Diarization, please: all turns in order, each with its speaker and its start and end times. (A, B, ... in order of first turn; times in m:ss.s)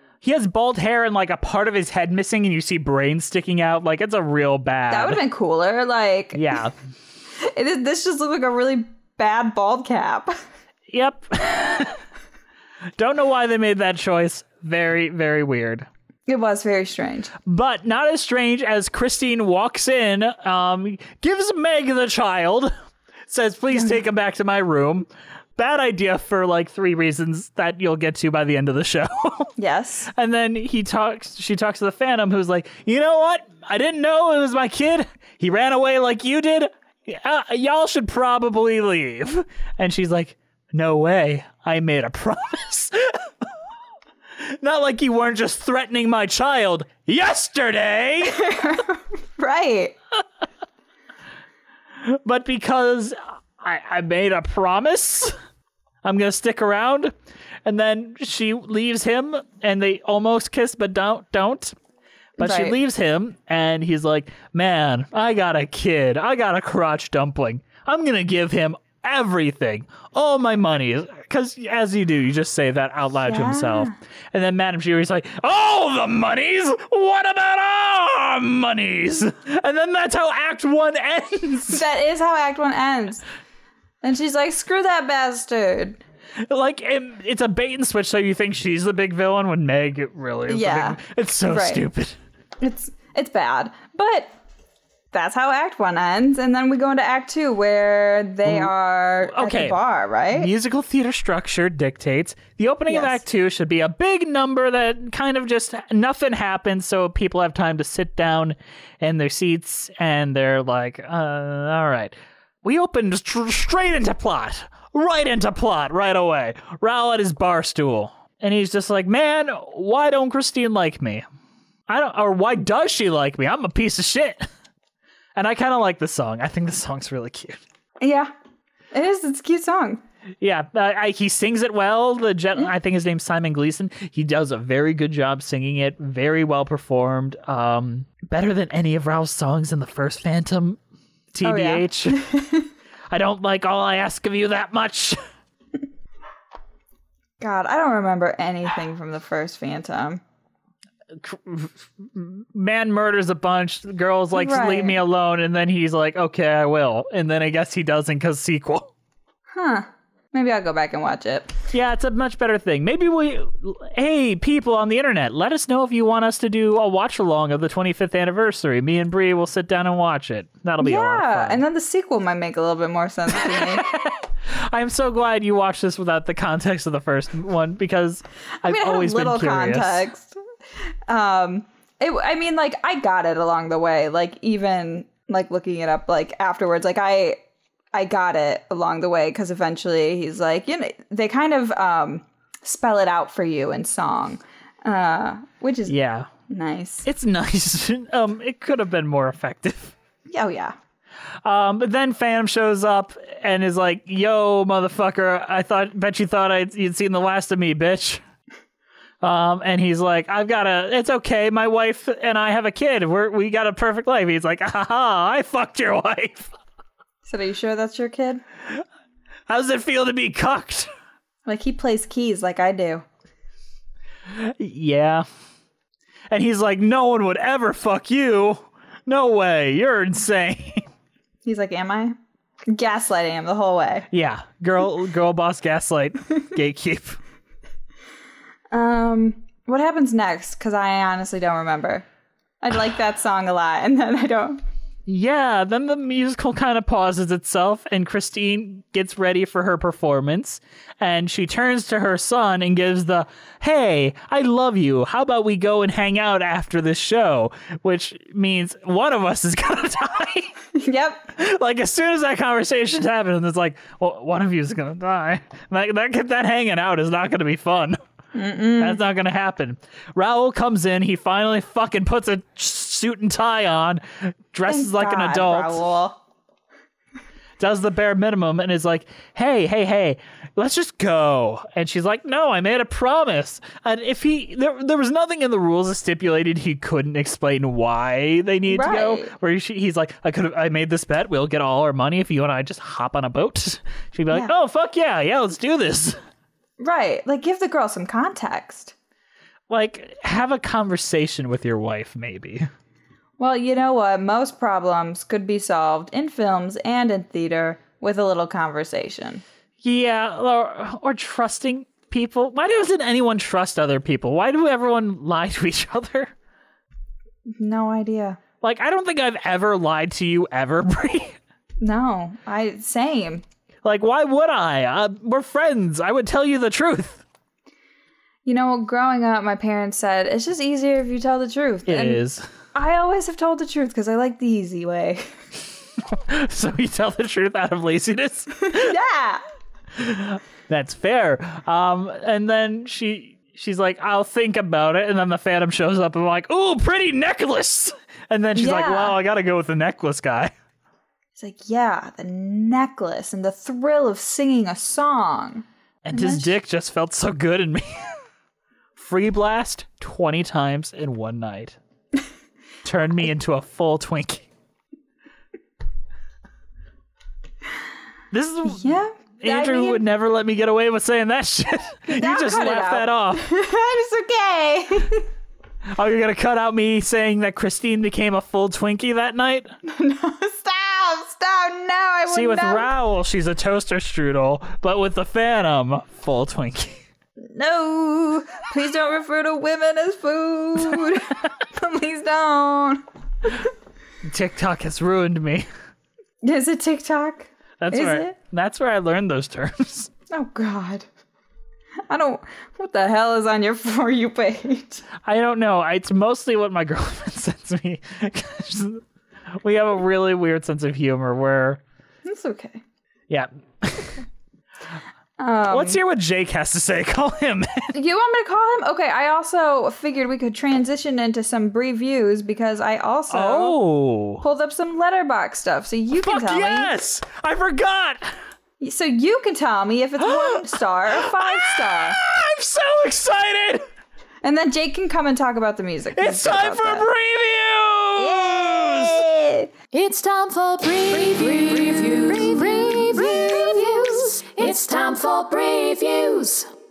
0:00.2-0:05.2 A
0:04.9-0:06.6 B
0:06.4-0:06.8 A
0:07.4-0:10.3 B
0:10.9-0:12.0 A
0:13.0-0:15.9 A
0:16.3-0:17.3 B
0:17.5-0:22.7 A
0:23.3-0:29.5 A
0:29.6-0:30.1 B
0:30.1-0:43.2 A
0:44.4-0:48.5 A
0:48.3-0:50.0 B
0:52.0-0:55.3 A
0:56.0-0:57.1 A
0:57.7-1:01.8 A
1:02.4-1:02.8 B
1:02.4-1:21.8 A
1:13.2-1:14.0 B
1:21.7-1:23.2 B
1:24.0-1:26.0 B
1:26.5-1:32.2 A
1:30.5-1:31.8 B
1:32.6-1:34.3 B
1:35.1-1:40.5 B
1:38.4-1:38.7 A
1:39.3-1:39.8 A
1:40.3-2:01.2 A
1:42.9-1:43.2 B
2:01.9-2:04.5 A
2:05.4-2:07.6 A
2:08.0-2:08.3 B
2:08.9-2:10.0 B
2:10.4-2:20.8 A
2:21.3-2:22.2 A
2:21.4-2:22.7 B
2:23.1-2:25.2 A
2:27.4-2:30.2 B
2:31.2-2:38.9 A
2:34.3-2:35.0 B
2:39.5-2:41.5 B
2:41.7-2:51.6 A
2:50.8-2:53.8 B
2:53.4-3:00.0 A
2:58.6-3:00.4 B
3:01.1-3:07.4 B
3:07.9-3:16.0 B
3:15.9-3:16.3 A
3:16.5-3:17.1 B
3:17.0-3:20.0 A
3:20.3-3:20.8 B
3:21.4-3:28.2 A
3:29.2-3:36.5 A
3:37.3-3:38.4 B
3:39.5-3:40.9 A
3:41.5-3:43.0 B
3:44.3-3:45.3 A
3:46.3-3:50.9 A
3:51.4-3:54.1 B
3:54.1-3:57.2 A
3:58.7-4:02.1 B
4:02.6-4:04.6 B
4:05.1-4:20.5 A
4:20.8-4:21.3 B
4:21.4-4:28.0 A
4:28.3-4:29.0 B
4:28.8-4:35.8 A
4:34.7-4:36.2 B
4:37.6-4:56.2 A
4:48.7-4:49.3 B
4:56.8-4:59.0 B
4:59.7-5:02.7 A
5:03.4-5:09.4 B
5:09.8-5:16.3 A
5:17.5-5:18.4 B
5:18.6-5:21.4 A
5:21.8-5:23.4 B
5:23.8-5:27.2 A
5:28.4-5:32.2 B
5:31.9-5:32.5 A
5:32.7-5:35.3 B
5:36.1-5:39.0 A
5:38.6-5:39.4 B
5:40.0-5:50.5 A
5:48.6-5:49.2 B
5:51.4-5:56.6 B
5:56.0-5:58.2 A
5:59.0-6:01.8 A
6:02.8-6:04.5 A
6:08.3-6:13.4 A
6:08.6-6:10.0 B
6:12.1-6:15.3 B
6:15.9-6:19.7 A
6:19.8-6:22.9 B
6:22.3-6:27.0 A
6:27.4-6:33.7 B
6:34.3-6:35.7 A
6:36.4-6:38.3 B
6:37.8-6:40.1 A
6:40.3-6:41.1 B
6:42.1-6:45.0 B
6:45.2-6:49.0 A
6:49.6-6:51.8 A
6:52.2-6:52.8 B
6:53.3-6:54.2 A
6:55.4-6:56.0 B
6:55.7-6:57.9 A
6:57.9-7:03.8 B
7:03.3-7:04.4 A
7:04.4-7:06.9 B
7:06.2-7:08.3 A
7:08.8-7:12.2 B
7:10.3-7:10.6 A
7:11.1-7:13.8 A
7:14.4-7:17.1 B
7:16.1-7:19.2 A
7:18.2-7:19.7 B
7:19.9-7:26.7 C